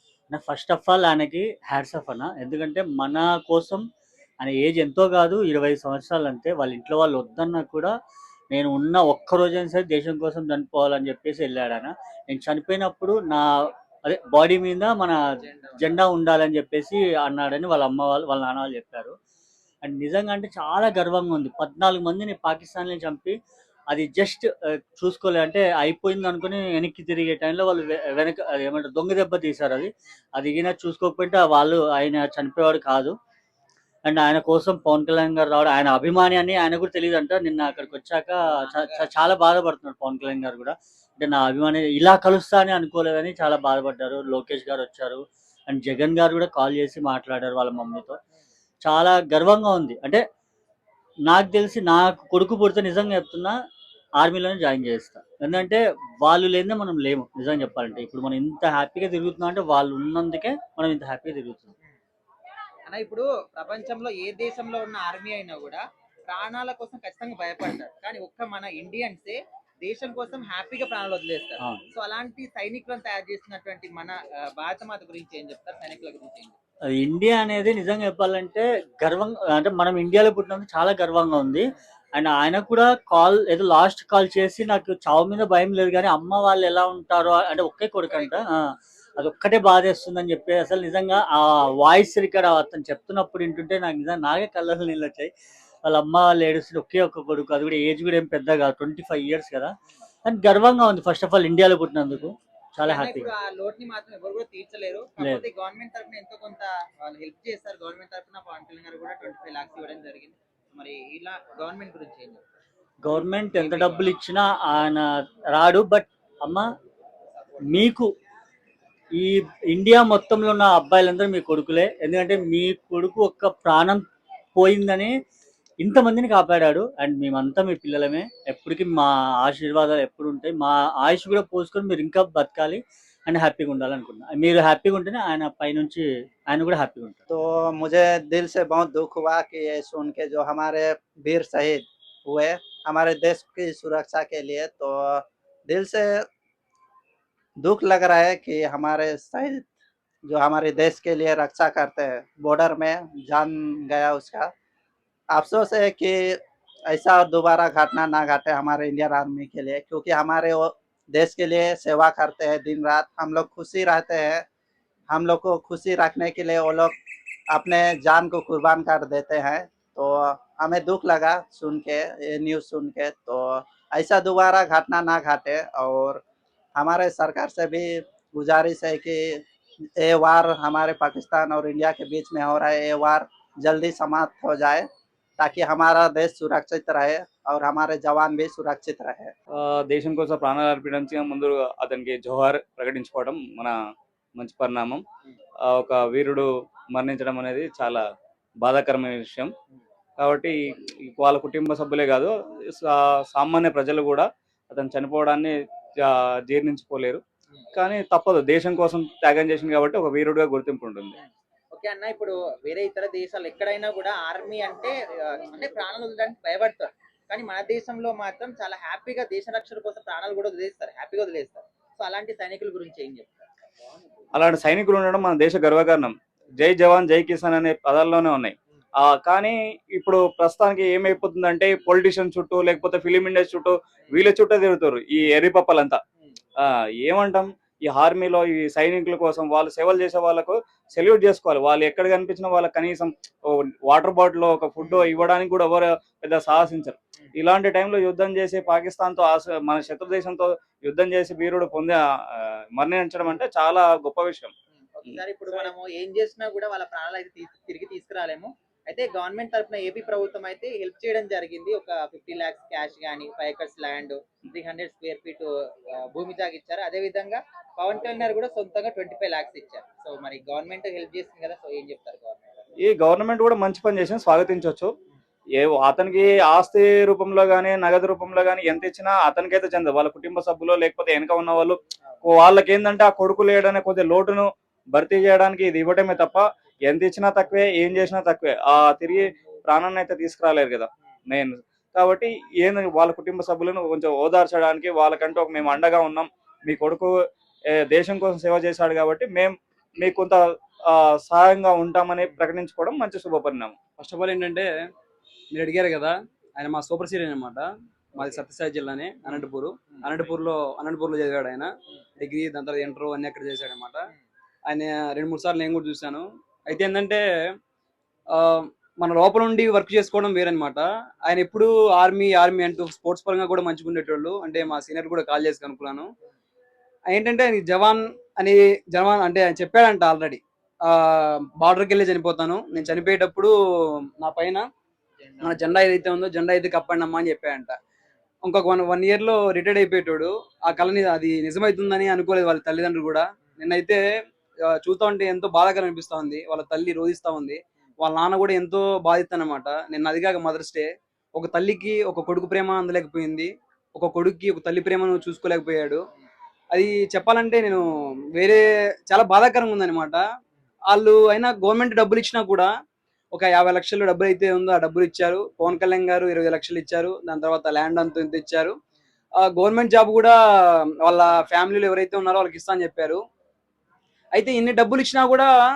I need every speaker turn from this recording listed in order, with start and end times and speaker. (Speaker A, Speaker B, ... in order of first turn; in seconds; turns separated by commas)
Speaker A: 0.3-3.8, Speaker A: 4.4-7.9, Speaker A: 8.5-15.2, Speaker B: 15.4-16.0, Speaker A: 15.8-19.1, Speaker A: 19.8-23.4, Speaker A: 23.9-33.2, Speaker A: 34.0-48.2, Speaker B: 37.7-38.0, Speaker B: 38.5-39.0, Speaker A: 48.8-50.2, Speaker A: 51.3-53.5, Speaker A: 54.2-61.7, Speaker B: 62.9-76.6, Speaker A: 76.9-81.6, Speaker A: 82.2-95.3, Speaker B: 88.1-88.4, Speaker A: 95.8-103.3, Speaker B: 102.8-112.4, Speaker A: 113.0-116.7, Speaker B: 113.1-114.1, Speaker B: 117.4-117.8, Speaker A: 117.7-118.1, Speaker A: 119.2-125.1, Speaker A: 125.8-137.2, Speaker C: 137.3-146.3, Speaker C: 147.6-149.7, Speaker C: 150.3-154.5, Speaker C: 155.3-164.4, Speaker C: 165.1-166.9, Speaker C: 167.5-176.2, Speaker C: 176.8-179.4, Speaker C: 180.0-184.9, Speaker C: 185.4-189.3, Speaker D: 189.6-193.7, Speaker D: 194.4-195.0, Speaker D: 195.7-198.0, Speaker D: 198.6-199.5, Speaker D: 200.2-200.6, Speaker D: 201.1-207.2, Speaker D: 207.8-211.2, Speaker B: 211.2-223.5, Speaker D: 224.3-236.0, Speaker D: 236.6-254.5, Speaker B: 254.8-272.6, Speaker D: 272.8-274.9, Speaker D: 275.6-297.1, Speaker D: 297.7-300.4, Speaker D: 300.9-303.8, Speaker E: 304.0-304.7, Speaker E: 305.5-314.0, Speaker E: 314.7-317.2, Speaker E: 318.3-326.1, Speaker E: 327.1-333.5, Speaker E: 334.2-334.7, Speaker B: 335.2-335.7, Speaker E: 335.4-337.8, Speaker E: 338.4-344.0, Speaker E: 344.7-356.0, Speaker E: 356.7-357.8, Speaker E: 358.4-360.2, Speaker E: 360.9-362.7, Speaker E: 363.3-368.8, Speaker E: 369.4-370.4, Speaker E: 371.1-373.2, Speaker E: 374.4-375.5